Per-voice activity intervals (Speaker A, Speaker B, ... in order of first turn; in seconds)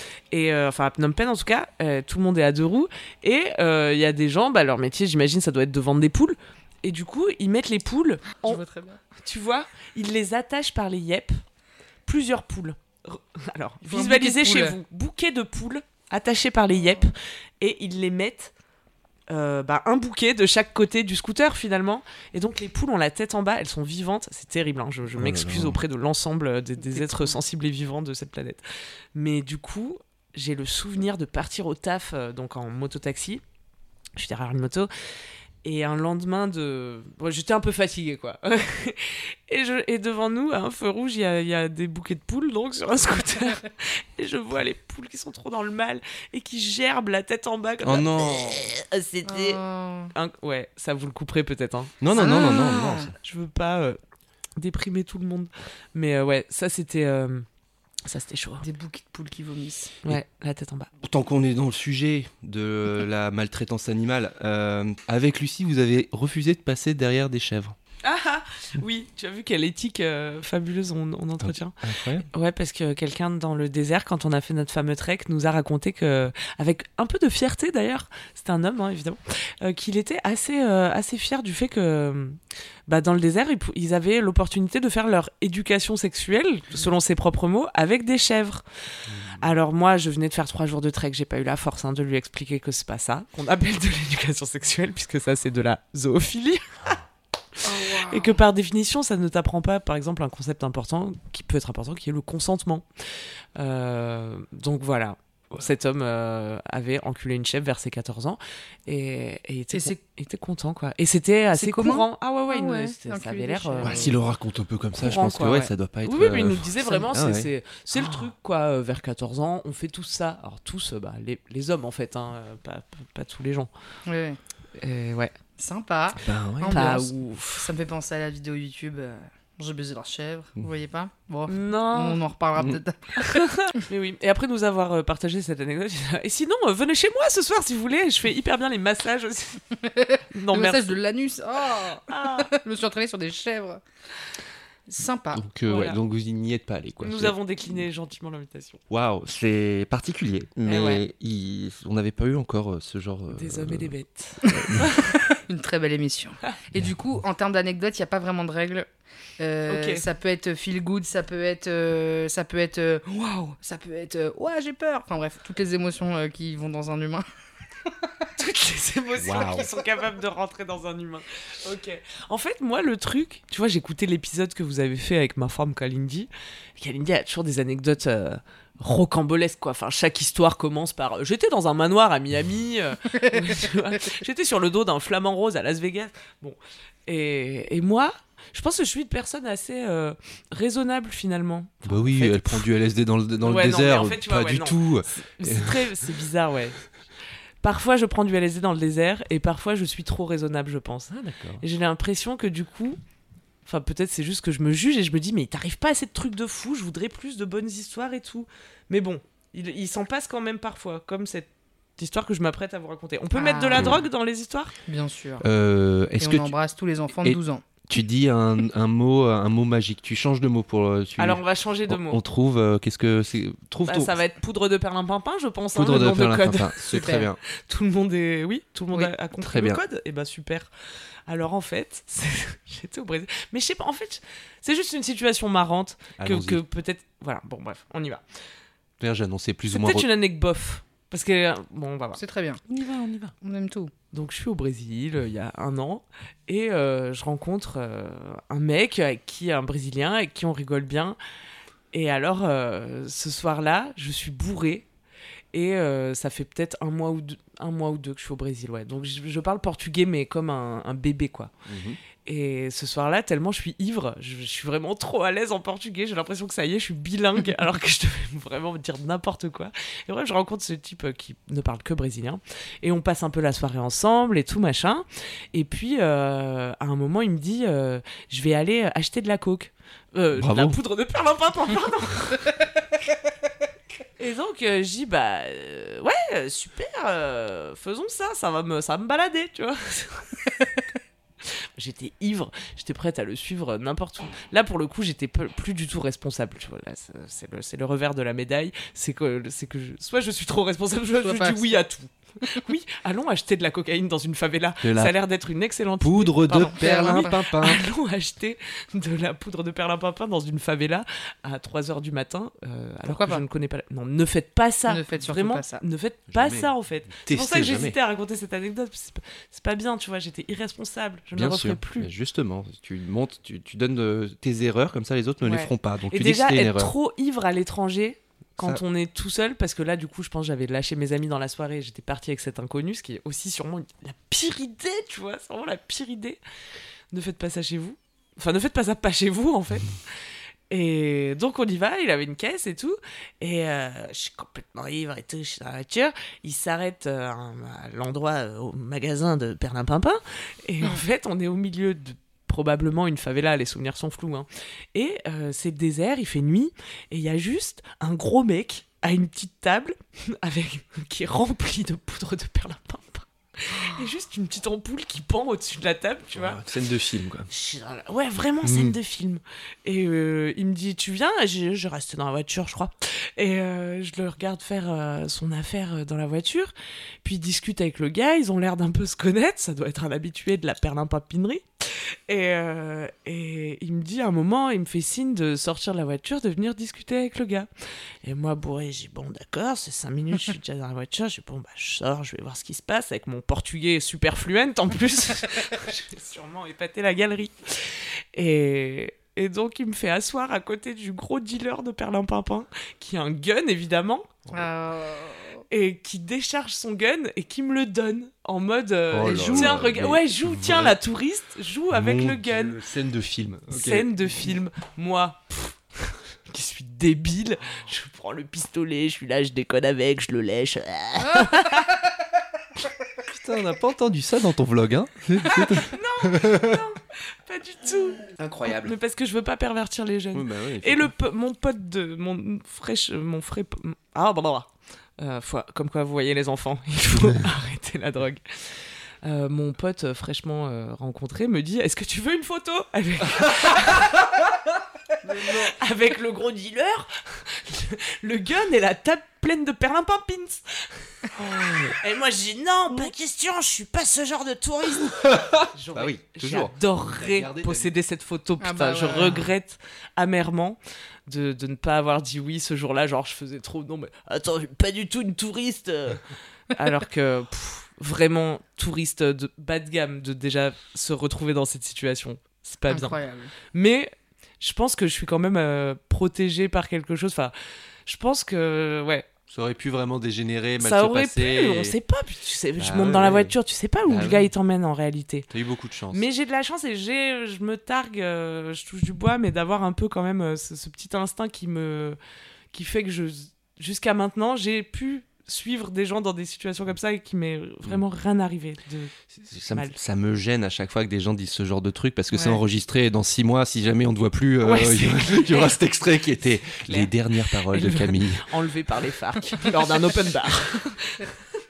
Speaker A: 0.3-8.6, 9.2-11.4, 12.0-18.5, 19.3-33.4, 34.1-34.9, 35.6-49.6, 50.1-51.9, 53.2-54.0, 54.6-57.5, 58.0-58.7, 60.0-60.9, 68.0-88.6, 89.4-97.0, 97.5-114.2, 115.0-123.7, 124.8-125.3, 126.7-127.7, 131.5-132.2, 133.2-139.7, 140.3-141.0, 142.1-142.5, 145.7-146.0, 147.0-148.8, 150.7-151.0, 153.3-155.2, 159.7-160.0, 168.4-192.7, 193.4-196.8, 197.6-203.0, 203.6-214.7, 221.2-222.2, 223.9-230.7, 231.3-238.2, 239.7-242.2, 244.1-251.2, 251.9-254.9, 255.5-261.5, 262.2-282.5, 284.2-290.4, 291.4-322.1, 325.4-336.4, 337.1-340.0, 340.7-366.6, 367.5-376.7, 377.2-387.7, 388.2-404.4, 405.7-412.8, 413.7-421.9, 425.4-444.2, 445.4-473.2, 473.7-477.5, 478.0-479.3, 480.8-485.5, 486.1-492.2, 492.7-499.9, 504.6-505.8, 506.7-511.3
Speaker B: 8.4-9.0, 13.8-14.8, 26.9-27.3, 49.2-50.1, 52.1-53.1, 58.6-60.0, 97.6-98.4, 109.7-110.0, 111.5-114.1, 124.1-124.4, 125.6-133.8, 139.9-143.8, 144.9-145.4, 154.4-158.9, 159.4-167.2, 169.4-169.6, 213.3-213.9, 214.9-215.4, 216.2-217.6, 226.9-227.2, 242.2-242.6, 243.4-243.9, 301.2-301.8, 306.5-307.4, 313.1-313.4, 314.9-315.8, 404.5-405.6, 409.2-409.8, 458.6-459.4, 472.9-473.5, 502.3-502.6
Speaker C: 25.1-25.8, 47.8-48.6, 52.0-53.1, 61.0-67.7, 71.4-72.3, 89.1-89.5, 113.8-118.2, 126.2-126.8, 145.3-147.3, 148.9-154.9, 169.2-169.7, 191.8-196.0, 201.1-201.6, 213.7-214.0, 215.4-216.5, 217.2-224.2, 225.7-227.4, 229.4-229.8, 236.2-236.6, 239.0-240.1, 243.0-243.3, 261.6-262.0, 280.4-280.8, 304.8-305.1, 306.0-307.8, 316.3-318.0, 321.3-326.9, 366.3-367.5, 368.6-368.9, 409.1-410.9, 411.9-414.1, 423.3-426.8, 428.4-428.9, 430.3-431.1, 451.4-451.9, 455.1-457.9, 479.5-481.9, 482.8-484.5, 485.5-486.2, 499.3-508.5